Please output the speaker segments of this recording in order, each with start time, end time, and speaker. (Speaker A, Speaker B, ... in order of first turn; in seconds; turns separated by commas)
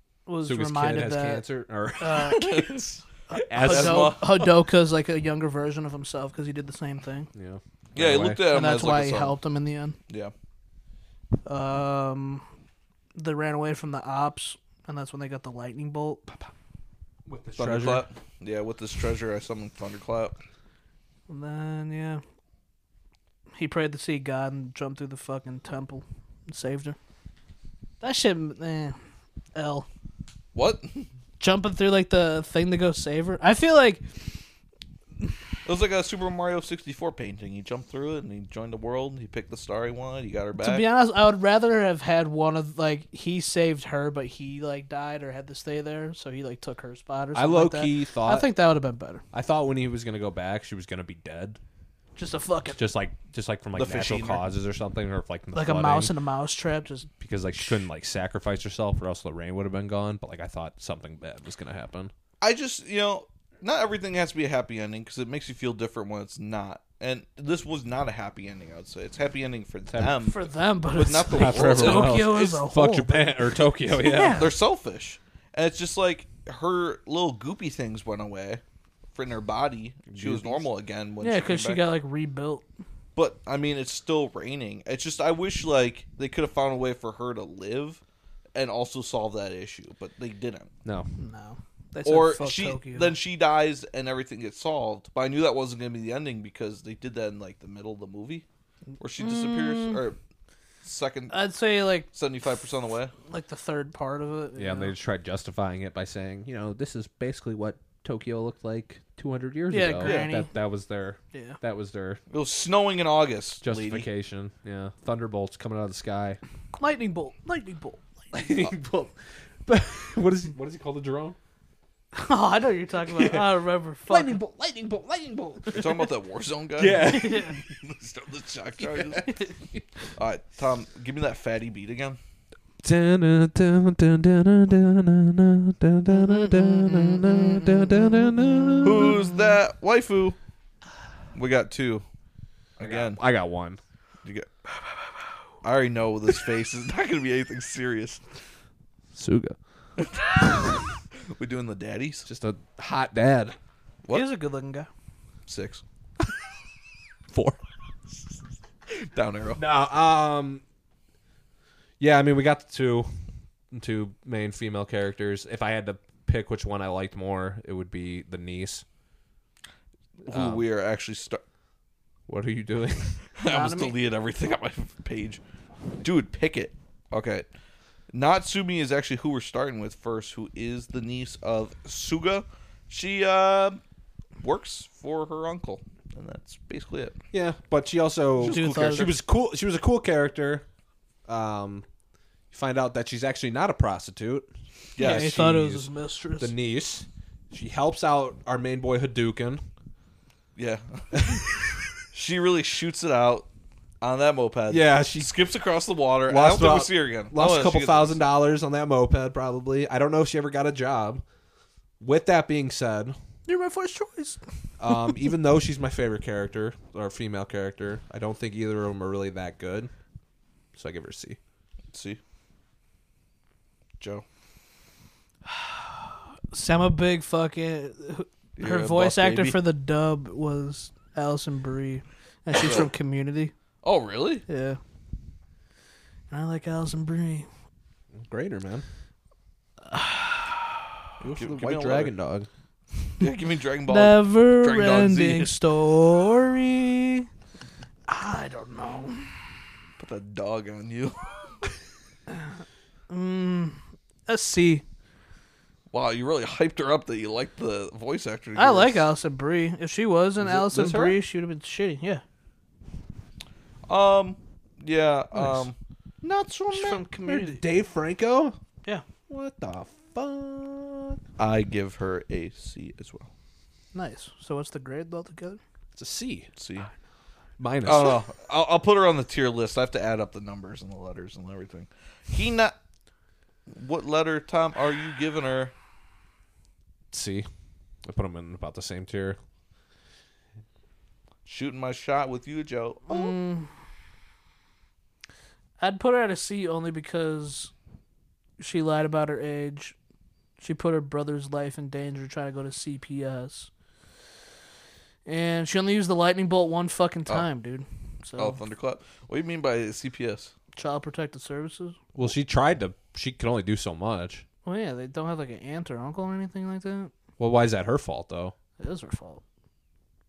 Speaker A: 0.3-1.4, Speaker B: 0.5-2.6, Speaker A: 2.0-2.7, Speaker C: 2.3-3.0, Speaker A: 3.3-7.3, Speaker B: 3.4-4.2, Speaker C: 3.6-4.5, Speaker B: 7.3-8.4, Speaker C: 8.0-9.4, Speaker A: 8.5-10.0, Speaker A: 11.4-12.4, Speaker A: 13.2-16.2, Speaker B: 17.3-18.1, Speaker C: 17.6-20.4, Speaker A: 21.3-22.2, Speaker A: 23.6-27.0, Speaker A: 28.0-29.0, Speaker A: 29.6-29.9, Speaker C: 30.5-31.1, Speaker A: 31.4-34.0, Speaker C: 35.7-40.9, Speaker A: 40.6-49.2, Speaker B: 47.4-48.5, Speaker B: 49.3-51.6, Speaker A: 52.2-52.8, Speaker B: 52.8-56.1, Speaker C: 53.8-54.4, Speaker A: 55.5-57.1, Speaker B: 57.2-62.1, Speaker C: 62.4-70.4, Speaker B: 69.9-70.2, Speaker A: 70.2-74.5, Speaker C: 70.9-72.4, Speaker B: 71.3-74.5, Speaker C: 74.2-78.6, Speaker C: 79.1-81.8, Speaker B: 80.1-80.6, Speaker A: 81.2-82.7, Speaker C: 83.2-88.0, Speaker C: 88.5-90.7, Speaker A: 91.2-93.2, Speaker C: 92.0-98.5, Speaker C: 99.0-100.2, Speaker A: 99.2-100.0, Speaker C: 100.8-101.4, Speaker A: 101.3-102.1, Speaker C: 102.1-103.1, Speaker A: 103.3-104.9, Speaker B: 104.6-112.2, Speaker A: 109.7-110.5, Speaker C: 110.0-110.3, Speaker A: 111.3-111.6, Speaker C: 112.3-114.1, Speaker B: 113.6-116.4, Speaker A: 116.8-118.0, Speaker B: 118.3-121.4, Speaker A: 122.2-124.4, Speaker B: 123.2-123.5, Speaker B: 124.1-126.1, Speaker C: 125.7-129.3, Speaker B: 126.8-127.6, Speaker A: 127.0-127.6, Speaker B: 128.9-129.3, Speaker C: 130.2-132.2, Speaker B: 132.8-139.2, Speaker A: 136.1-139.1, Speaker C: 138.8-140.4, Speaker C: 141.3-142.1, Speaker C: 142.8-143.2, Speaker B: 142.8-143.8, Speaker C: 144.2-144.5, Speaker C: 145.6-148.2, Speaker B: 149.2-149.6, Speaker C: 150.0-152.3, Speaker B: 152.3-153.6, Speaker A: 154.1-154.9, Speaker C: 155.5-155.8, Speaker C: 159.0-159.6, Speaker B: 159.6-160.6, Speaker B: 162.0-163.1, Speaker B: 163.7-168.8, Speaker C: 170.2-171.4, Speaker B: 170.3-170.6, Speaker B: 172.3-173.2, Speaker C: 173.4-175.4, Speaker A: 173.4-173.9, Speaker C: 176.0-177.5, Speaker C: 178.1-183.8, Speaker C: 184.4-187.2, Speaker B: 187.3-190.7, Speaker C: 188.4-189.2, Speaker A: 188.5-189.1, Speaker B: 191.3-191.8, Speaker B: 192.5-195.9, Speaker C: 195.0-195.3, Speaker A: 195.0-196.5, Speaker B: 196.4-199.6, Speaker C: 200.6-201.5, Speaker B: 201.2-201.4, Speaker C: 202.1-203.5, Speaker C: 204.0-208.2, Speaker B: 204.7-205.3, Speaker B: 206.3-211.2, Speaker B: 212.0-213.2, Speaker A: 213.5-214.4, Speaker B: 214.8-219.9, Speaker B: 220.8-221.4, Speaker C: 221.9-222.2, Speaker C: 224.0-224.2, Speaker A: 225.5-225.9, Speaker A: 226.5-233.5, Speaker C: 228.6-229.6, Speaker C: 232.6-232.9, Speaker C: 233.8-234.4, Speaker A: 234.5-234.8, Speaker A: 236.3-237.5, Speaker B: 238.2-238.8, Speaker A: 239.9-240.8, Speaker B: 241.2-242.5, Speaker C: 241.2-242.1, Speaker C: 243.2-245.5, Speaker A: 243.9-247.3, Speaker A: 248.1-249.3, Speaker C: 250.0-251.7, Speaker A: 253.1-254.8, Speaker C: 255.9-259.1, Speaker A: 258.6-262.2, Speaker C: 260.4-261.2, Speaker C: 263.9-267.0, Speaker A: 266.7-267.6, Speaker B: 267.3-268.6, Speaker B: 269.3-271.2, Speaker C: 271.4-273.3, Speaker A: 273.9-275.6, Speaker B: 275.9-276.5, Speaker C: 276.6-276.9, Speaker B: 277.6-278.2, Speaker C: 277.8-282.8, Speaker C: 283.7-285.7, Speaker B: 287.1-287.5, Speaker B: 288.1-289.4, Speaker C: 291.4-293.4, Speaker A: 293.1-293.7, Speaker A: 295.8-297.7, Speaker A: 298.6-300.0, Speaker A: 300.6-303.7, Speaker A: 305.3-308.6, Speaker C: 308.4-310.5, Speaker A: 310.8-312.0, Speaker B: 312.1-314.4, Speaker A: 314.6-317.1, Speaker B: 317.4-318.5, Speaker A: 318.8-319.4